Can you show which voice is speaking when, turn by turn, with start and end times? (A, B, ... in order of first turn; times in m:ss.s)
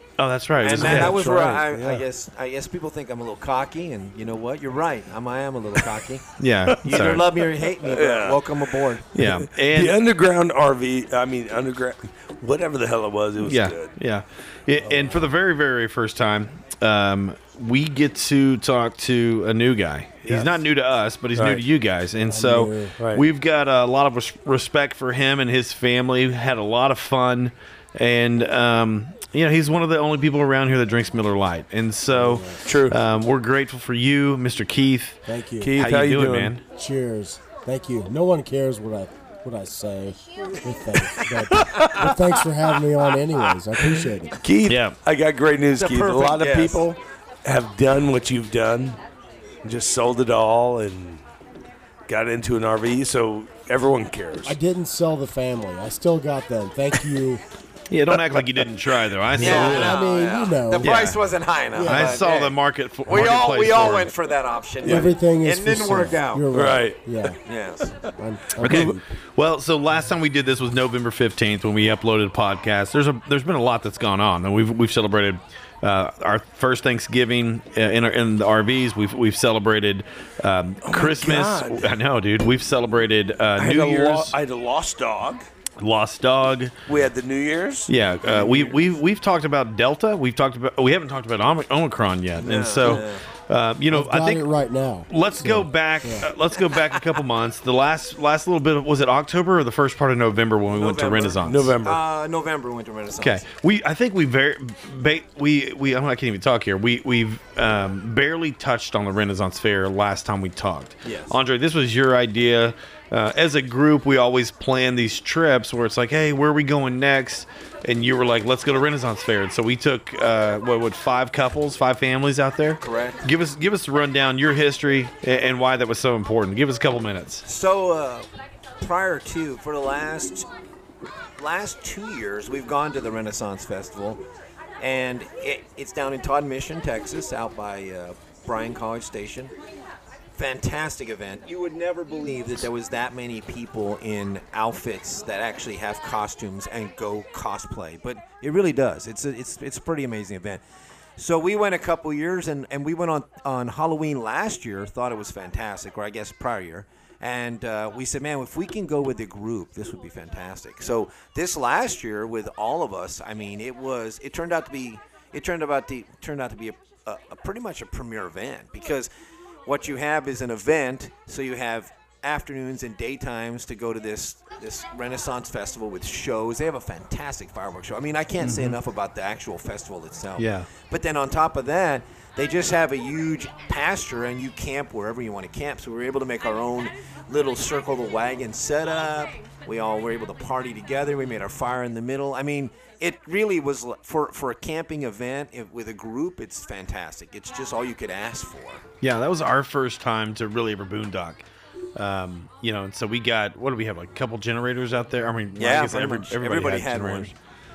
0:00.2-0:01.2 A
0:00.6-0:06.3 B
0:00.8-0:02.0 C
0:06.4-0:07.2 A
0:06.7-0:13.9 C
0:06.8-0:09.1 B
0:09.1-0:10.0 A
0:13.4-0:35.2 A
0:14.8-0:15.2 C
0:20.2-0:20.6 C
0:21.3-0:21.6 C
0:22.3-0:23.0 D
0:23.0-0:23.2 C
0:32.1-0:32.6 D
0:32.6-0:33.0 C
0:35.2-0:35.7 D
0:35.6-0:36.5 C
0:35.7-0:36.6 A
0:36.7-0:44.4 D
0:41.5-0:42.1 C
0:43.8-0:49.0 C
0:44.6-0:45.0 A
0:45.7-0:46.8 B
0:49.6-0:51.2 C
0:52.1-0:54.6 C
0:54.4-0:57.4 D
0:57.9-1:00.0 A
0:59.4-1:01.0 D
0:59.4-1:06.5 B
1:00.8-1:01.2 A
1:01.7-1:02.2 D
1:01.8-1:04.1 A
1:04.8-1:07.4 D
1:04.8-1:05.1 C
1:06.5-1:07.0 C
1:07.4-1:08.0 B
1:08.0-1:09.1 D
1:08.6-1:24.3 A
1:08.7-1:08.9 C
1:20.8-1:21.9 C
1:23.6-1:25.5 C
1:25.8-1:26.7 A
1:26.9-1:28.8 C
1:27.9-1:34.5 A
1:32.4-1:33.2 B
1:33.9-1:36.3 D
1:35.1-1:41.8 A
1:40.7-1:43.4 B
1:41.4-1:42.0 C
1:43.2-2:07.4 A
1:51.0-1:51.3 B
2:02.8-2:03.2 B
2:07.4-2:08.2 B
2:08.8-2:10.5 B
2:11.4-2:14.2 B
2:14.8-2:19.5 B
2:20.4-2:30.6 B
2:31.2-2:49.1 B
2:49.6-3:18.8 B
2:58.4-2:58.8 A
3:00.4-3:00.7 A
3:19.0-3:27.3 A
3:25.6-3:27.3 B